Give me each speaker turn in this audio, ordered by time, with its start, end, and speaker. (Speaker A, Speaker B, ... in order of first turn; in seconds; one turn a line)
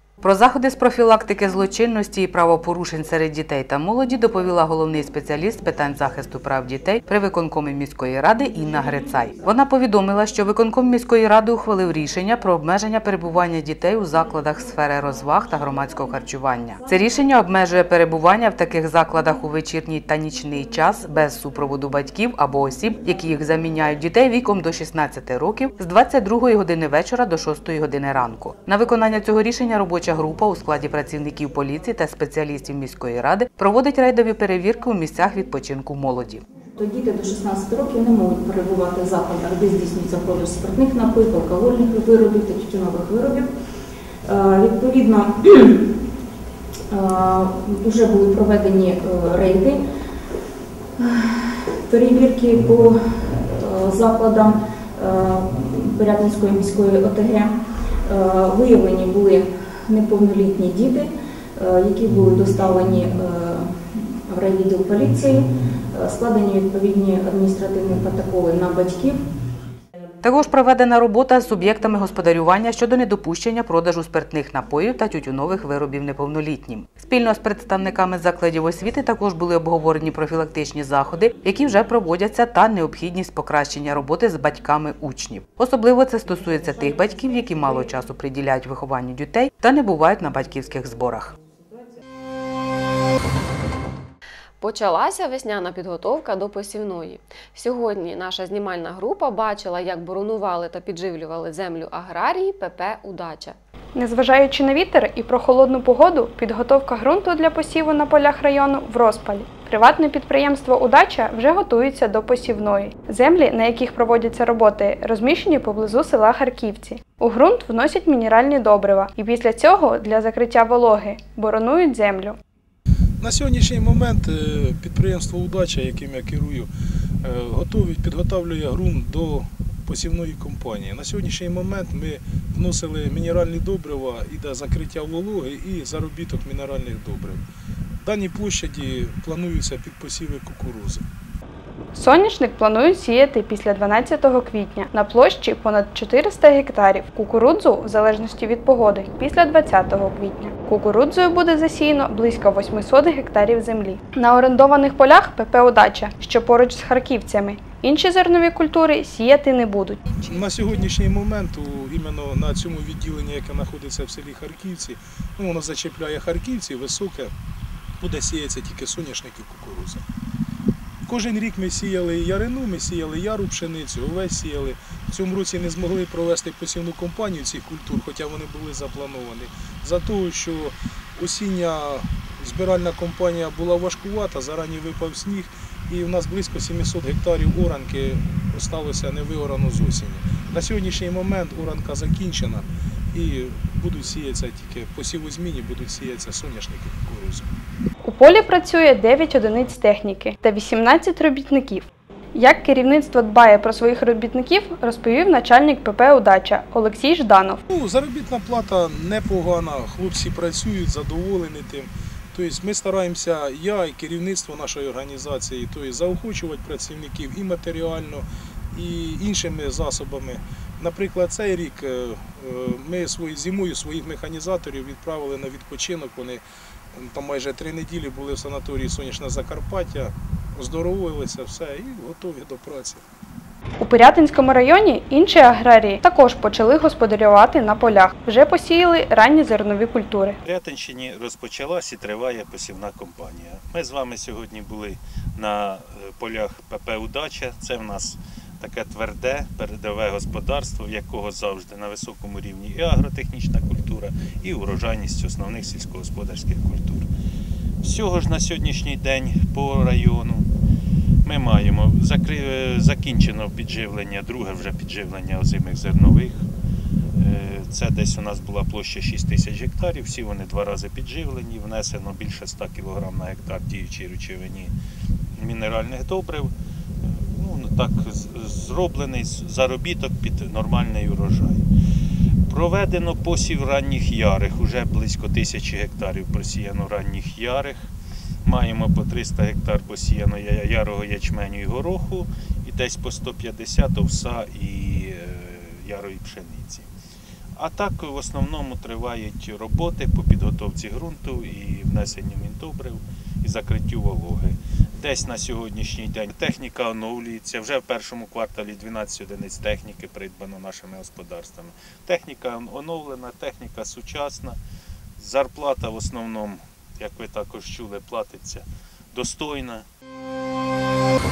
Speaker A: 0.2-36.4
Speaker B: 36.8-43.5
Speaker B: 44.2-45.9
Speaker B: 46.9-49.8
Speaker B: 51.0-69.2
Speaker A: 70.2-91.3
Speaker C: 94.6-103.5
Speaker D: 104.0-122.3
Speaker E: 123.2-126.7
Speaker E: 127.2-137.4
Speaker E: 138.0-141.0
Speaker D: 141.9-160.2
Speaker E: 160.4-167.3
Speaker E: 168.0-170.0
Speaker E: 171.1-197.5
Speaker D: 198.0-207.6
Speaker E: 207.7-226.4
Speaker E: 226.9-233.0
Speaker D: 233.8-240.4
Speaker F: 240.4-257.1
Speaker F: 257.8-260.5
Speaker F: 261.2-266.4
Speaker F: 267.2-274.7
Speaker F: 275.4-276.5
Speaker F: 277.0-281.6
Speaker F: 282.5-287.9
Speaker F: 288.4-296.9
Speaker F: 297.6-314.6
Speaker F: 315.2-319.8